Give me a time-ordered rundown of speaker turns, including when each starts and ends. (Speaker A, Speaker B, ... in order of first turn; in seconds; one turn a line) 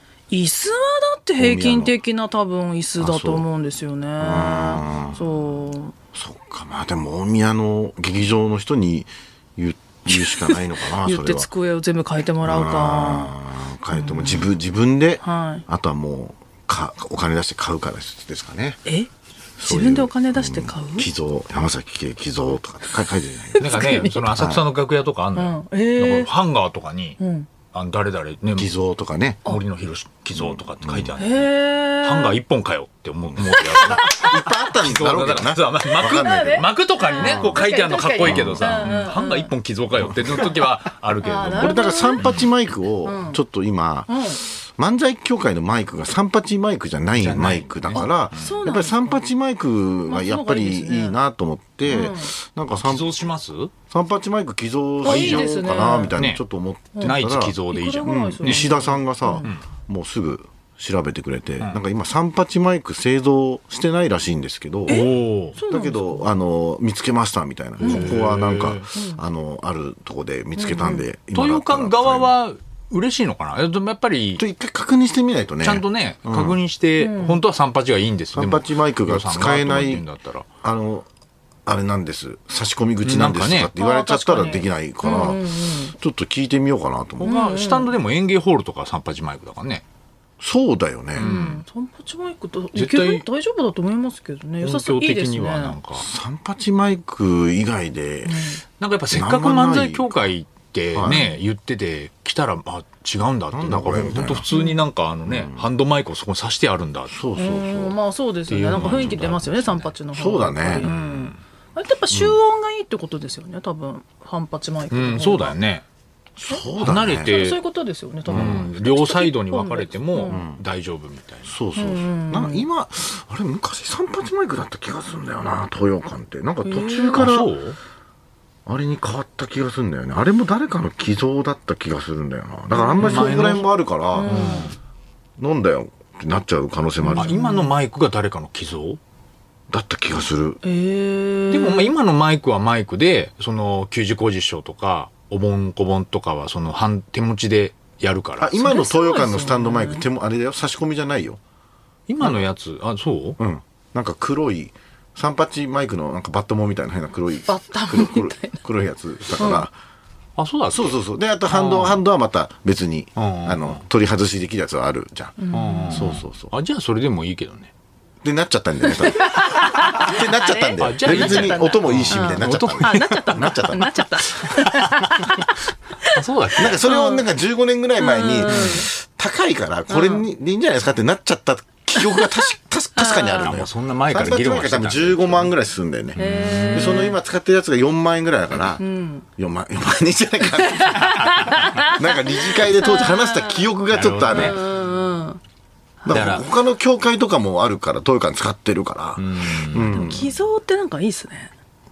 Speaker A: 0.3-6.0
Speaker B: 1.4-1.9
Speaker B: 3.0-3.5
Speaker B: 4.2-5.3
Speaker B: 6.1-11.5
Speaker A: 10.1-13.3
Speaker B: 12.4-18.8
Speaker A: 13.9-14.5
Speaker A: 15.2-15.7
Speaker B: 19.6-24.6
Speaker A: 19.6-21.1
Speaker A: 23.6-24.2
Speaker C: 23.6-27.2
Speaker A: 25.4-26.3
Speaker A: 27.2-27.5
Speaker C: 27.7-28.7
Speaker B: 28.5-29.4
Speaker C: 29.4-42.5
Speaker B: 30.4-31.2
Speaker A: 31.2-32.4
Speaker B: 33.3-36.7
Speaker A: 33.6-34.5
Speaker A: 36.0-39.5
Speaker B: 37.2-37.6
Speaker B: 38.2-39.0
Speaker A: 41.2-42.4
Speaker B: 41.5-53.1
Speaker A: 43.0-43.4
Speaker A: 44.1-44.4
Speaker C: 47.2-48.5
Speaker A: 48.0-49.1
Speaker A: 50.1-51.2
Speaker A: 51.9-52.3
Speaker C: 52.8-53.7
Speaker B: 53.9-65.1
Speaker C: 55.0-56.4
Speaker A: 55.0-56.2
Speaker C: 57.0-58.7
Speaker A: 57.7-59.5
Speaker C: 64.9-65.5
Speaker A: 64.9-66.3
Speaker B: 65.7-72.3
Speaker C: 67.8-68.9
Speaker A: 67.8-68.1
Speaker A: 68.9-69.2
Speaker A: 70.6-71.0
Speaker C: 71.3-74.4
Speaker B: 74.4-76.6
Speaker C: 75.6-80.5
Speaker A: 77.0-77.4
Speaker B: 78.3-80.0
Speaker B: 80.6-81.1
Speaker B: 81.7-87.3
Speaker C: 83.0-83.7
Speaker A: 83.8-85.9
Speaker A: 87.2-87.9
Speaker C: 87.2-89.8
Speaker B: 90.4-91.3
Speaker C: 91.2-91.6
Speaker A: 91.2-95.8
Speaker C: 92.8-93.3
Speaker C: 94.6-96.1
Speaker B: 96.0-98.5
Speaker A: 98.3-98.6
Speaker C: 98.8-107.2
Speaker B: 99.1-100.1
Speaker B: 100.9-101.3
Speaker B: 103.5-104.5
Speaker A: 104.5-104.8
Speaker B: 105.3-105.6
Speaker B: 107.1-108.0
Speaker A: 107.4-115.5
Speaker C: 108.5-109.9
Speaker B: 108.7-109.2
Speaker B: 110.1-110.9
Speaker C: 110.8-111.4
Speaker B: 112.1-112.4
Speaker C: 114.9-115.8
Speaker B: 116.4-117.4
Speaker A: 116.5-120.4
Speaker C: 116.8-117.6
Speaker B: 118.3-118.7
Speaker C: 118.3-121.5
Speaker B: 120.3-120.6
Speaker B: 121.5-127.5
Speaker A: 121.8-122.7
Speaker A: 126.6-127.3
Speaker C: 127.2-127.8
Speaker B: 128.7-134.5
Speaker A: 132.7-133.5
Speaker C: 133.0-133.7
Speaker A: 134.1-134.7
Speaker C: 134.3-134.7
Speaker B: 135.4-137.3
Speaker A: 137.0-137.7
Speaker C: 137.2-139.0
Speaker B: 139.7-140.6
Speaker A: 140.6-141.9
Speaker C: 141.5-148.6
Speaker B: 148.4-151.4
Speaker A: 148.6-150.1
Speaker C: 152.1-153.4
Speaker B: 153.4-159.7
Speaker A: 157.5-158.6
Speaker A: 159.4-159.7
Speaker C: 160.4-161.0
Speaker B: 160.7-166.5
Speaker C: 161.5-162.0
Speaker C: 163.2-163.8
Speaker A: 165.4-166.1
Speaker C: 165.5-167.7
Speaker B: 168.2-173.9
Speaker A: 168.9-176.2
Speaker C: 170.8-173.4
Speaker C: 176.1-176.8
Speaker B: 176.6-188.8
Speaker A: 176.8-177.2
Speaker A: 178.0-178.9
Speaker C: 178.4-178.8
Speaker A: 179.9-180.3
Speaker A: 182.0-183.5
Speaker C: 183.4-185.5
Speaker C: 186.2-187.1
Speaker A: 186.2-187.2
Speaker A: 188.8-189.3
Speaker B: 189.4-194.6
Speaker A: 190.7-193.7
Speaker C: 193.9-194.7
Speaker A: 194.3-195.4
Speaker A: 196.0-196.3
Speaker B: 196.1-200.3
Speaker C: 196.1-196.4
Speaker C: 199.2-200.2
Speaker A: 199.9-201.5